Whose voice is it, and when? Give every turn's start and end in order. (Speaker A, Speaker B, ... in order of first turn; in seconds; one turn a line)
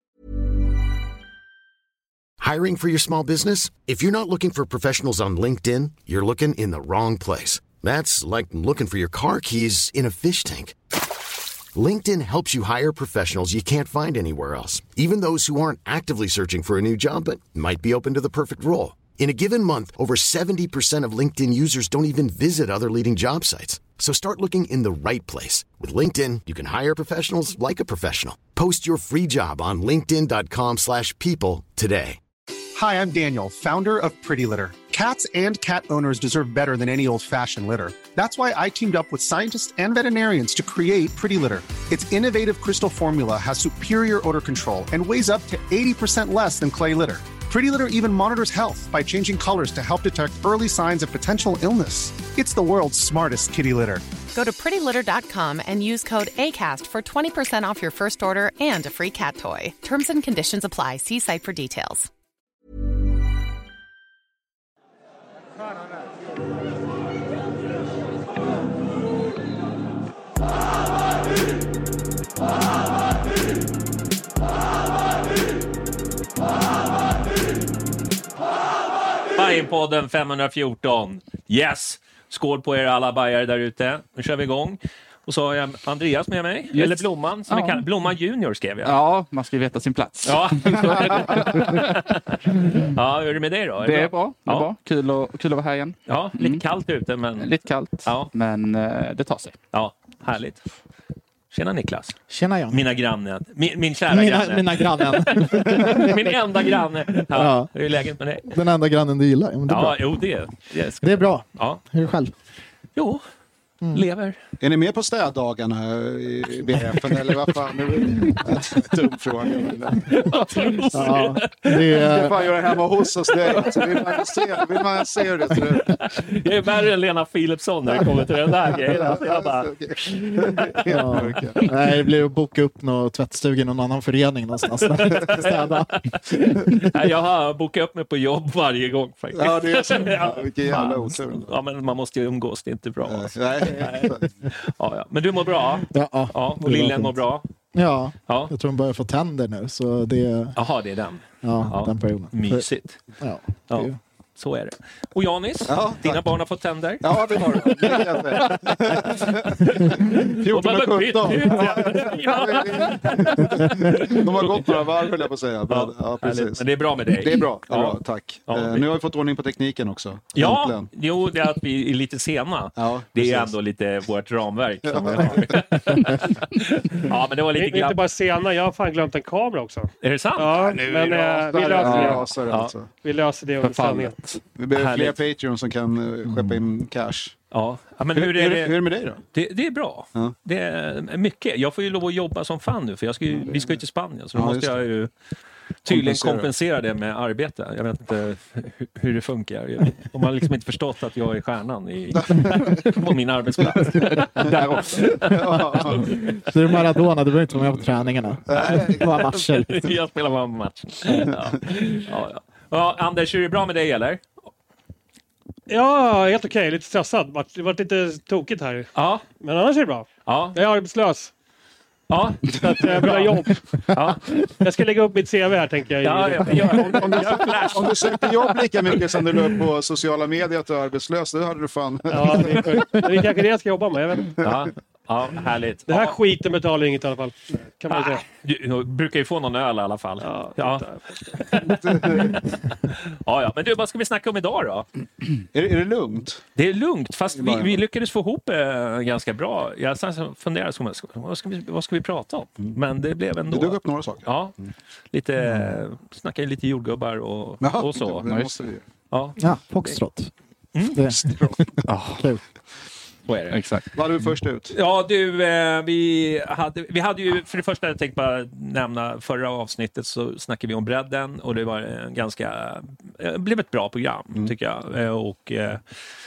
Speaker A: 2.4-10.8
Speaker A: 11.8-32.2
Speaker B: 32.8-54.0
Speaker C: 54.3-62.1
Speaker D: 79.3-89.0
Speaker E: 86.7-87.8
Speaker E: 88.8-91.8
Speaker D: 90.2-94.7
Speaker E: 93.8-96.6
Speaker D: 96.1-98.3
Speaker E: 97.4-99.6
Speaker D: 99.7-100.6
Speaker D: 101.5-102.2
Speaker F: 102.3-102.8
Speaker D: 102.7-108.5
Speaker F: 104.1-106.3
Speaker F: 107.3-107.7
Speaker F: 108.4-110.2
Speaker D: 109.7-111.8
Speaker F: 111.0-112.3
Speaker D: 113.0-113.2
Speaker D: 113.9-114.4
Speaker G: 114.6-120.8
Speaker D: 120.0-122.1
Speaker F: 120.9-122.5
Speaker G: 122.0-126.1
Speaker D: 123.3-124.8
Speaker D: 125.8-130.8
Speaker G: 128.7-131.7
Speaker F: 130.9-135.9
Speaker D: 135.0-135.5
Speaker D: 136.1-147.5
Speaker G: 139.3-141.5
Speaker G: 143.1-144.3
Speaker F: 145.9-147.2
Speaker F: 147.7-150.6
Speaker D: 150.6-153.0
Speaker F: 151.4-152.7
Speaker F: 153.2-154.0
Speaker D: 153.7-165.1
Speaker G: 155.7-156.3
Speaker G: 157.0-170.9
Speaker D: 165.7-168.9
Speaker D: 170.3-178.0
Speaker G: 172.8-173.6
Speaker G: 174.9-175.8
Speaker H: 177.5-182.3
Speaker D: 180.0-180.5
Speaker G: 180.5-182.9
Speaker D: 182.1-182.7
Speaker H: 183.0-184.2
Speaker E: 183.6-184.4
Speaker G: 184.6-187.4
Speaker D: 184.7-185.2
Speaker D: 187.5-195.1
Speaker G: 188.1-189.2
Speaker G: 194.3-194.8
Speaker D: 195.8-206.4
Speaker G: 195.9-196.5
Speaker G: 202.2-202.9
Speaker E: 204.0-205.2
Speaker G: 205.2-206.2
Speaker F: 206.4-209.9
Speaker G: 208.5-209.1
Speaker D: 208.6-214.2
Speaker H: 215.7-221.3
Speaker D: 218.9-219.2
Speaker D: 220.3-220.6
Speaker D: 222.1-223.3
Speaker H: 222.6-223.8
Speaker D: 223.9-224.3
Speaker H: 224.4-227.7
Speaker D: 226.0-228.6
Speaker G: 226.9-233.0
Speaker H: 232.1-234.4
Speaker D: 234.4-236.2
Speaker H: 235.9-238.3
Speaker D: 237.9-244.9
Speaker H: 240.2-241.5
Speaker G: 241.6-242.4
Speaker G: 245.5-246.4
Speaker D: 246.6-254.6
Speaker G: 247.4-247.8
Speaker G: 253.5-254.3
Speaker D: 255.1-258.3
Speaker G: 257.6-258.8
Speaker E: 258.2-258.6
Speaker D: 259.1-260.0
Speaker F: 259.4-260.3
Speaker D: 260.8-261.0
Speaker F: 260.9-262.4
Speaker G: 261.2-261.8
Speaker E: 261.9-262.3
Speaker D: 263.3-263.6
Speaker E: 263.5-263.9
Speaker G: 263.9-264.7
Speaker D: 264.7-275.8